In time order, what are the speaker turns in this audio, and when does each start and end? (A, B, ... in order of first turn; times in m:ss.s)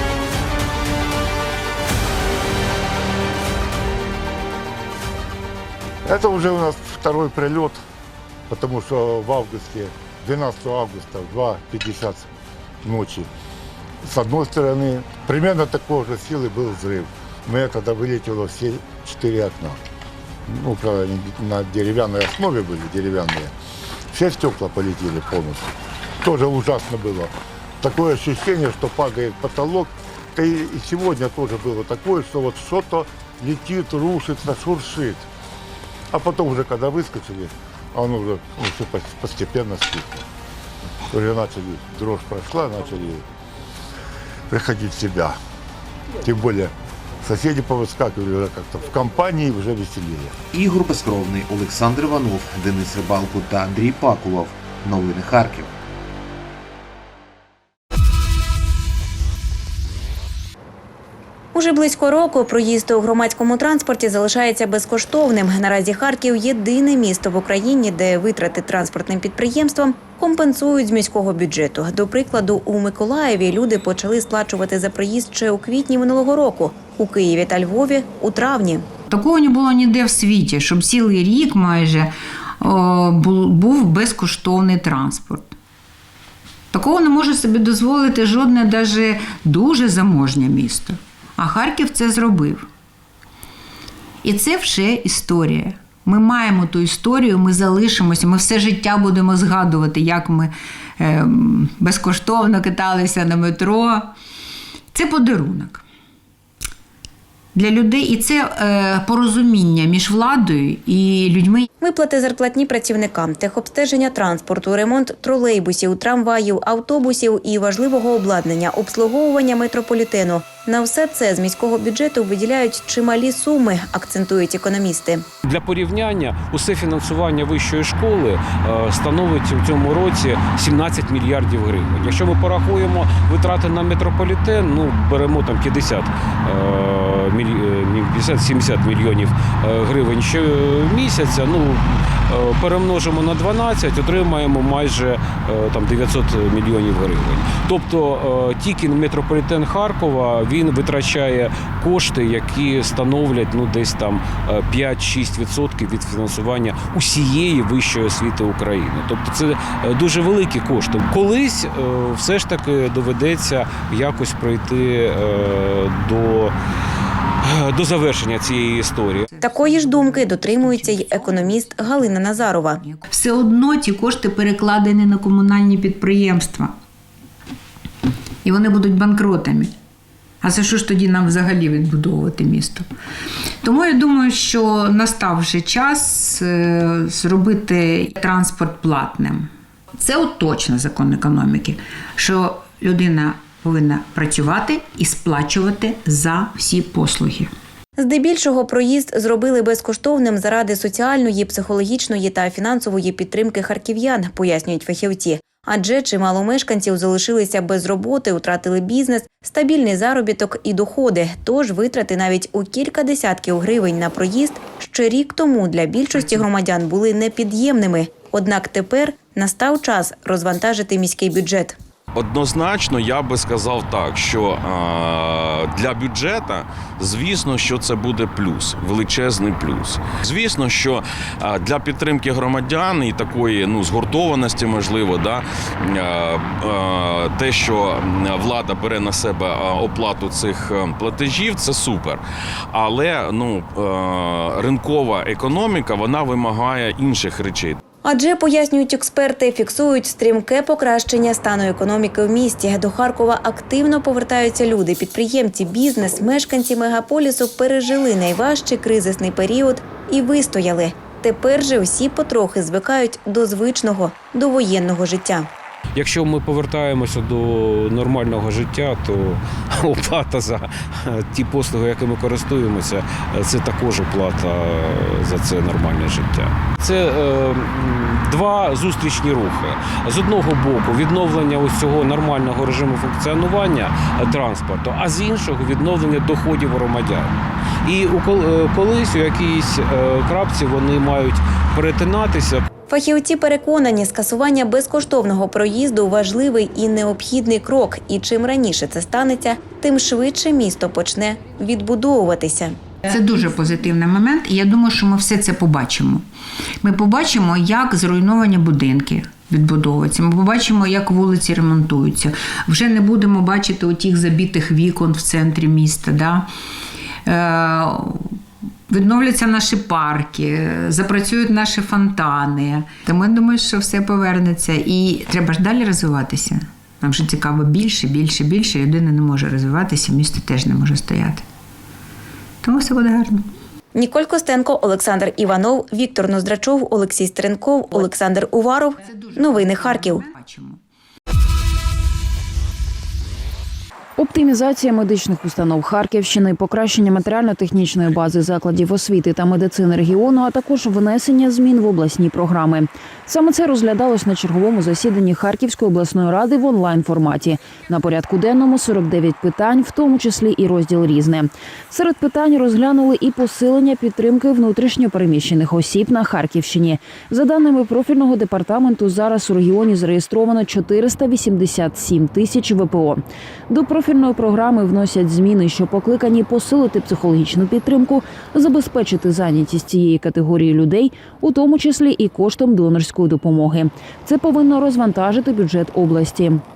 0:06.1-0:07.8 A
0:08.5-0:12.3 A
0:12.8-0:13.3 A
0:14.0-0:19.8 A
0:20.5-0:23.5 A
0:24.1-0:25.7 A
0:26.2-0:35.3 A
0:36.1-0:40.2 A
0:41.1-0:43.2 A
0:44.5-0:45.4 A
0:46.2-0:50.4 A
0:50.5-0:55.7 B
1:01.5-1:18.9 C
1:19.1-1:25.6 D
1:26.7-1:32.7 D
1:34.2-1:44.1 D
1:44.9-1:45.8 D
1:47.5-1:51.7 D
1:51.8-2:05.2 C
2:05.4-2:46.6 E
2:47.4-2:49.3 E
2:49.3-2:56.8 D
2:49.4-2:52.8 C
2:58.4-2:59.7 D
3:00.4-3:02.9 D
3:03.6-3:17.5 D
3:18.0-3:41.8 C
3:42.2-4:07.8 F
4:08.0-4:25.5 C
4:26.0-4:52.6 E
4:52.9-5:02.8 C
5:03.1-5:06.3 D
5:06.8-5:16.5 D
5:17.3-5:31.4 D
5:32.6-5:33.5 D
5:34.0-5:40.3 C
5:39.0-5:40.8 D
5:44.2-6:26.6 G